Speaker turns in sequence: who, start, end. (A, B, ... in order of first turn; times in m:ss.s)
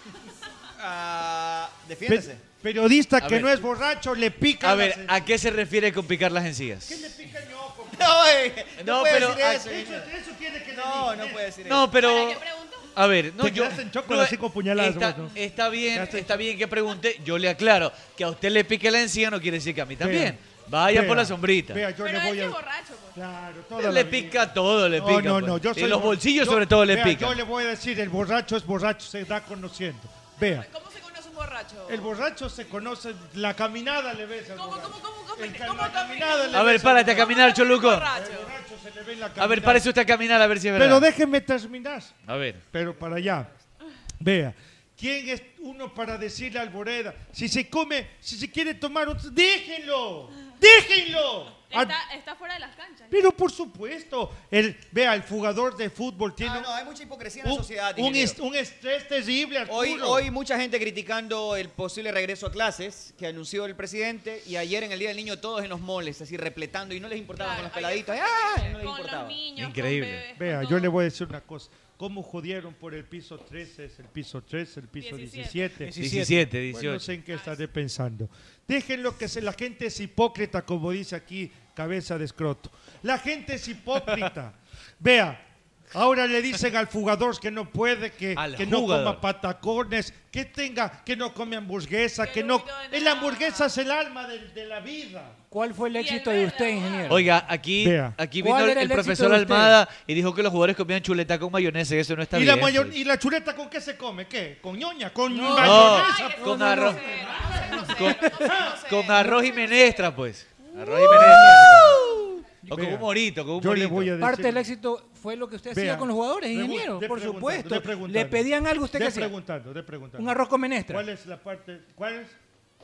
0:00.8-0:02.4 A
0:02.1-0:05.4 B
0:03.2-0:03.6 C
0:04.6-0:07.0 C
0:06.9-0:08.2 B
0:07.9-0:10.1 A
0:08.8-0:09.6 C
0:09.3-0:11.5 B
0:10.7-0:11.9 A
0:11.7-0:21.8 C
0:11.9-0:12.9 D
0:13.4-0:16.5 B
0:20.0-0:22.6 B
0:22.0-0:23.1 D
0:23.1-0:30.7 B
0:23.8-0:27.4 C
0:30.4-0:32.1 E
0:31.9-0:37.4 B
0:34.6-0:38.5 E
0:36.5-0:38.1 C
0:38.1-0:39.9 B
0:39.4-0:41.1 C
0:40.7-0:42.1 B
0:42.3-0:42.6 C
0:42.7-0:43.5 B
0:44.2-0:52.0 B
0:51.7-0:53.3 D
0:53.1-0:56.7 B
0:56.4-0:58.4 A
0:57.4-1:00.3 B
0:59.7-1:09.4 A
1:07.4-1:09.0 E
1:07.4-1:10.9 D
1:09.6-1:10.3 C
1:10.4-1:16.0 B
1:15.0-1:15.7 D
1:15.8-1:16.5 F
1:16.0-1:17.1 C
1:16.7-1:35.4 B
1:28.4-1:29.2 C
1:32.2-1:33.6 D
1:35.5-1:37.3 F
1:35.9-1:37.3 D
1:37.1-1:43.0 C
1:37.8-1:38.2 B
1:38.4-1:39.8 F
1:42.3-1:47.9 B
1:45.3-1:46.0 F
1:45.6-1:47.1 C
1:45.9-1:47.8 D
1:46.1-1:50.0 E
1:46.6-1:46.9 F
1:47.8-1:52.0 C
1:48.4-1:48.9 B
1:49.4-1:50.0 D
1:51.0-1:52.2 F
1:51.4-1:51.9 B
1:52.6-1:54.1 C
1:52.7-1:54.7 B
1:54.2-1:59.3 F
1:55.7-2:02.4 B
2:00.2-2:01.1 F